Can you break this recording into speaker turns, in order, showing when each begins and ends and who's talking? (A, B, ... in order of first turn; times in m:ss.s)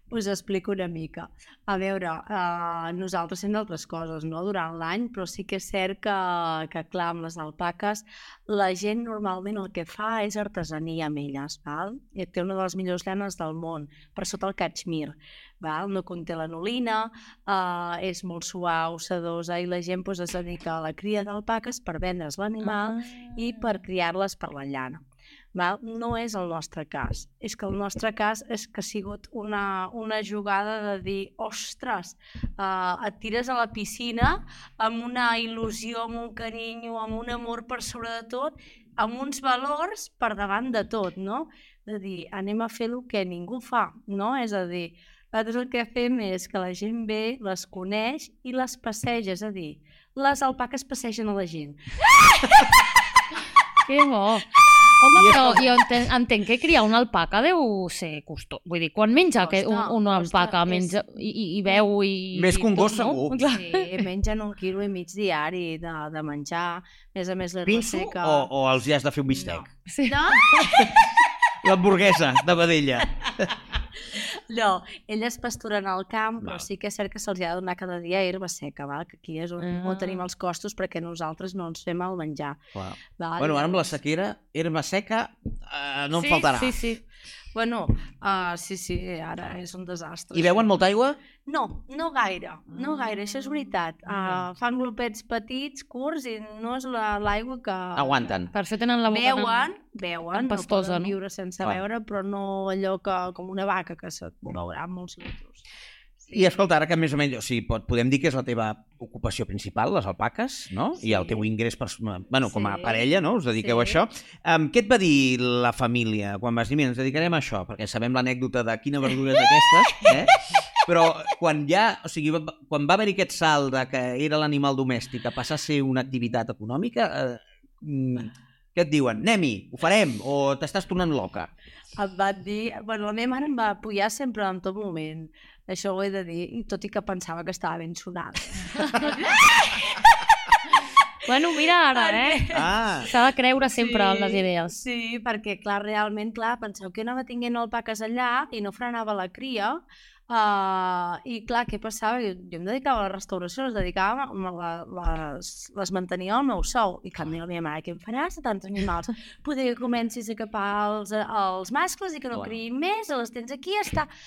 0:00.1-0:25.0 A
0:22.6-0:23.3 B
0:25.5-0:51.8 A
0:53.9-0:54.5 B
0:55.1-1:04.0 B
0:55.1-0:55.6 C
0:59.4-1:01.0 A
1:02.3-1:03.4 C
1:03.4-1:08.5 A
1:07.7-1:09.7 C
1:09.3-1:10.9 A
1:09.9-1:10.7 B
1:11.6-1:13.5 C
1:14.1-1:22.6 A
1:19.6-1:20.2 B
1:22.7-1:26.8 C
1:23.2-1:24.0 A
1:26.2-1:27.0 B
1:27.5-1:30.7 A
1:30.3-1:31.2 C
1:31.4-1:38.3 A
1:38.0-1:38.5 C
1:38.5-1:39.7 B
1:39.1-1:45.6 A
1:40.3-1:41.2 B
1:46.3-2:11.5 C
1:51.0-1:51.4 A
1:52.5-1:54.0 A
2:12.0-2:20.0 A
2:21.3-2:22.4 B
2:21.9-2:22.6 A
2:22.5-2:23.1 C
2:23.1-2:24.8 B
2:23.7-2:44.1 A